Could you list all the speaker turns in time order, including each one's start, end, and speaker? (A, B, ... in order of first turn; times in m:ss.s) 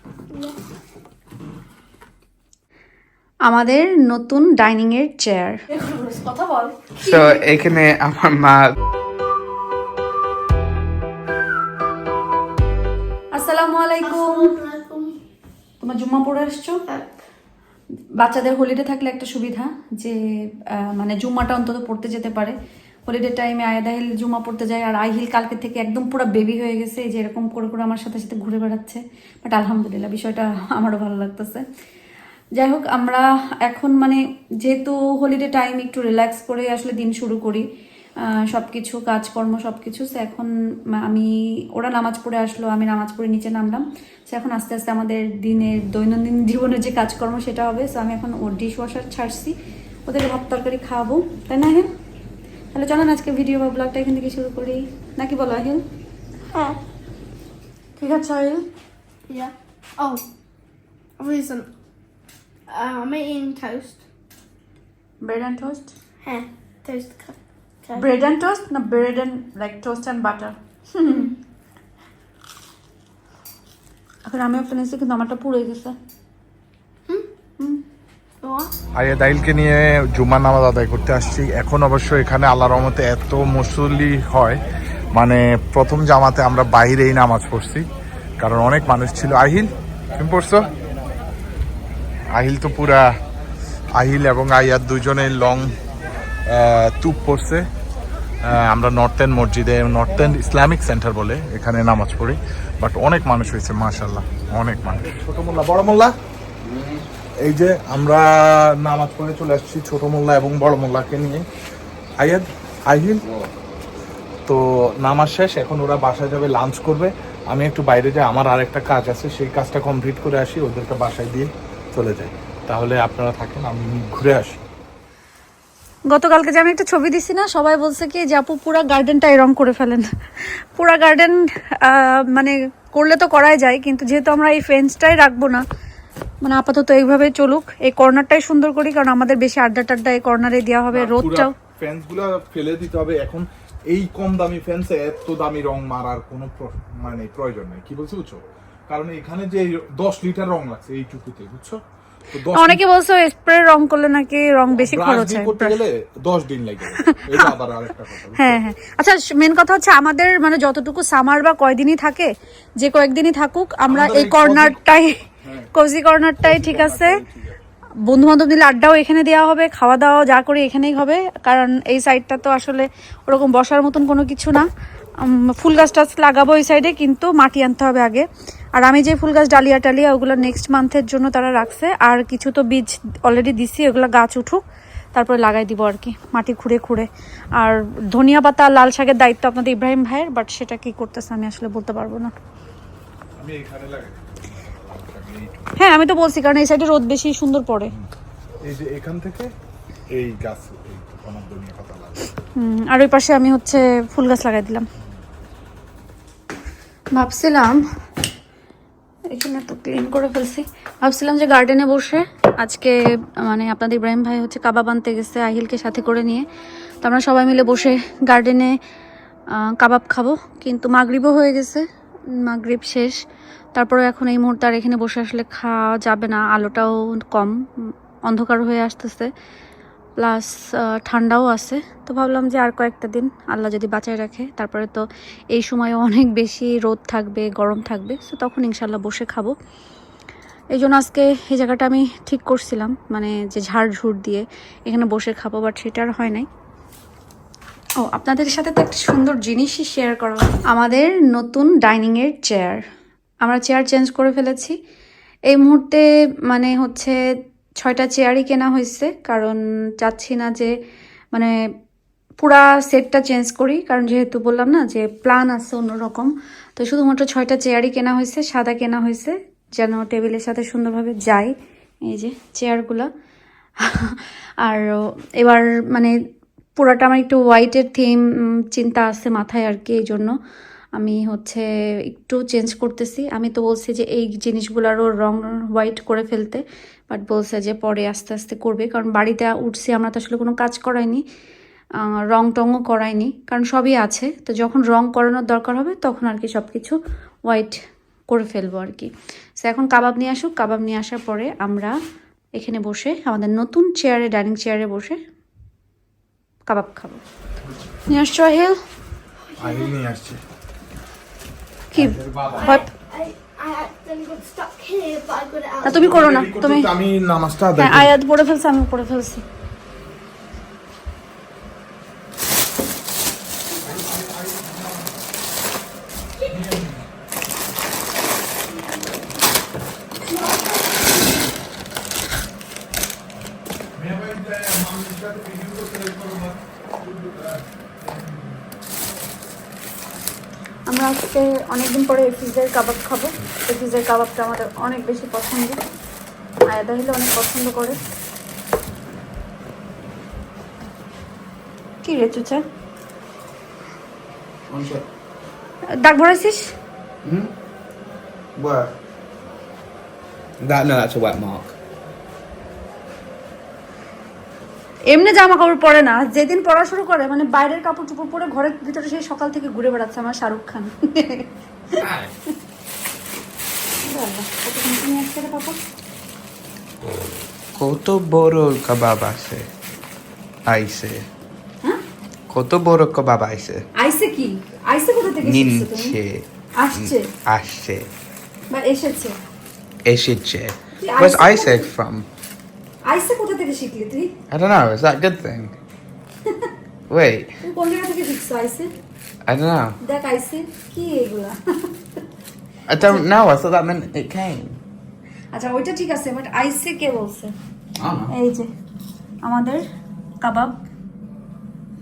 0:03.4-0:05.6 A
0:05.7-0:06.7 B
0:07.0-0:08.7 C
0:07.1-0:07.4 A
0:13.3-0:14.5 A
0:14.0-0:15.1 B
0:15.8-0:16.8 A
0:16.9-0:17.2 B
0:18.2-0:20.2 A
0:20.7-0:22.5 A
0:23.1-0:31.6 A
0:32.5-0:37.6 A
0:38.2-0:49.5 A
0:50.1-0:51.9 A
0:52.7-0:55.8 A
0:56.5-0:56.8 B
0:58.0-0:58.6 A
0:59.3-1:00.2 B
1:01.2-1:01.7 B
1:02.7-1:04.0 B
1:05.2-1:05.9 A
1:06.2-1:08.2 B
1:07.9-1:11.3 A
1:14.3-1:15.9 A
1:18.4-1:18.7 B
1:18.9-1:24.6 D
1:25.1-1:27.8 D
1:28.4-1:30.7 D
1:32.3-1:33.1 D
1:34.0-1:35.7 D
1:36.5-1:37.6 D
1:38.4-1:46.1 D
1:46.6-1:47.0 C
1:47.4-1:51.4 D
1:52.2-1:53.2 D
1:53.2-1:53.5 C
1:54.5-2:04.6 D
2:06.1-2:15.6 A
2:16.4-2:21.5 A
2:20.9-2:31.8 D
2:32.3-2:32.8 D
2:32.5-2:35.8 A
2:34.8-2:38.6 D
2:37.0-2:37.4 A
2:38.4-2:45.2 A
2:43.8-2:45.7 D
2:45.7-2:47.2 A
2:46.4-2:47.6 D
2:48.0-2:54.7 A
2:55.2-3:04.6 A
3:05.1-3:12.3 A
3:13.4-3:15.7 D
3:15.8-3:17.9 A
3:18.6-3:19.5 D
3:20.1-3:22.4 D
3:22.6-3:24.8 A
3:27.1-3:27.8 A
3:29.3-3:36.5 A
3:37.0-3:38.8 A
3:39.5-3:41.8 A
3:42.4-3:43.2 A
3:43.7-3:49.3 A
3:50.2-3:59.5 A
4:00.7-4:06.5 A
4:08.0-4:12.8 A
4:13.4-4:14.7 A
4:15.5-4:17.2 A
4:17.8-4:20.7 A
4:22.4-4:31.5 A
4:32.1-4:33.1 A
4:33.8-4:36.1 A
4:36.8-4:40.3 A
4:41.0-4:51.2 A
4:52.0-4:56.9 A
4:57.5-4:57.7 A
4:58.3-5:01.9 A
5:02.6-5:05.2 A
5:06.7-5:07.2 A
5:08.1-5:08.8 A
5:09.4-5:09.9 B
5:09.6-5:10.4 D
5:11.9-5:12.9 A
5:11.9-5:12.8 D
5:12.5-5:16.2 B
5:15.8-5:16.9 A
5:15.9-5:18.1 D
5:17.8-5:19.4 A
5:23.8-5:25.2 D
5:26.4-5:27.1 D
5:30.3-5:31.1 B
5:34.0-5:38.5 D
5:40.9-5:45.8 A
5:46.6-5:48.0 A
5:52.0-5:52.6 A
5:54.7-5:55.0 C
5:56.0-5:56.7 A
5:57.2-5:57.5 C
5:58.6-5:58.9 C
6:00.6-6:01.7 C
6:05.1-6:12.0 A
6:12.0-6:12.3 C
6:14.0-6:15.8 A
6:17.8-6:19.6 C
6:20.7-6:21.3 C
6:22.5-6:23.8 C
6:24.0-6:26.1 A
6:25.4-6:28.1 C
6:26.8-6:27.3 A
6:28.7-6:29.4 A
6:30.0-6:32.3 C
6:31.0-6:31.9 A
6:33.0-6:34.3 A
6:34.5-6:35.7 C
6:37.1-6:37.6 C
6:37.6-6:38.9 A
6:39.5-6:40.0 C
6:40.0-6:41.9 A
6:42.9-6:44.8 C
6:45.5-6:47.5 A
6:48.0-6:48.3 C
6:48.3-6:48.7 A
6:49.4-6:49.8 A
6:50.4-6:50.8 A